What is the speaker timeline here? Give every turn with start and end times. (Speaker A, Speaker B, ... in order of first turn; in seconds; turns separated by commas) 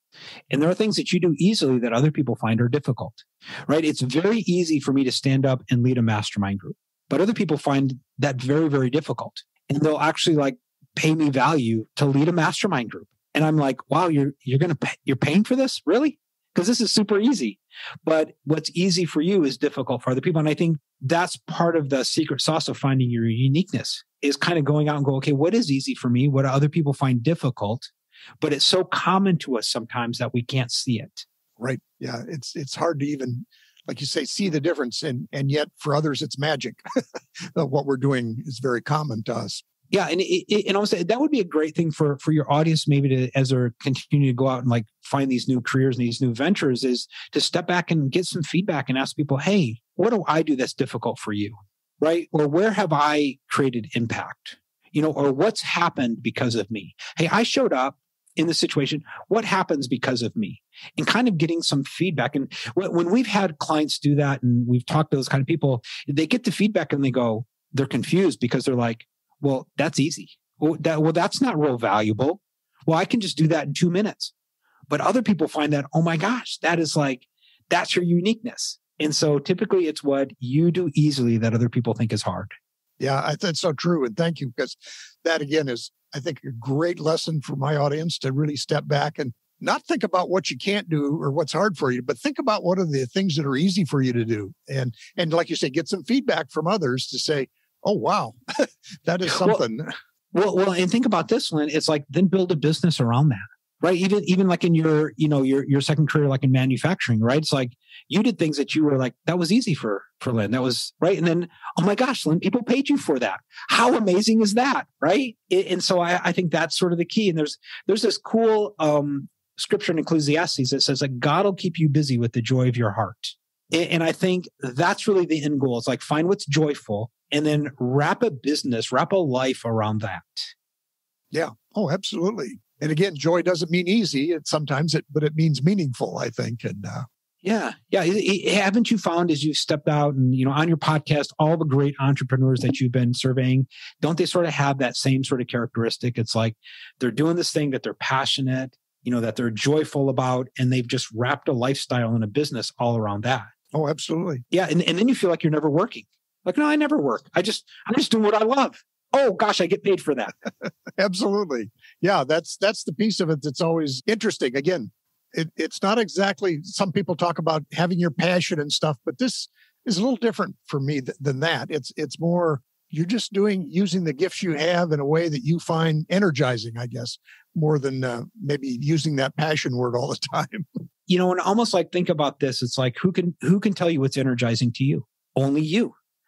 Speaker A: 0.5-27.9, Speaker A: 28.4-31.2, Speaker B: 31.6-36.8, Speaker B: 37.5-39.6, Speaker A: 39.9-74.3, Speaker A: 74.9-82.5, Speaker B: 83.0-99.9, Speaker A: 99.2-99.6, Speaker A: 100.3-130.5, Speaker B: 131.3-137.1, Speaker A: 137.4-153.5, Speaker B: 153.7-154.4, Speaker A: 154.5-160.3, Speaker B: 161.0-180.7, Speaker A: 181.1-185.9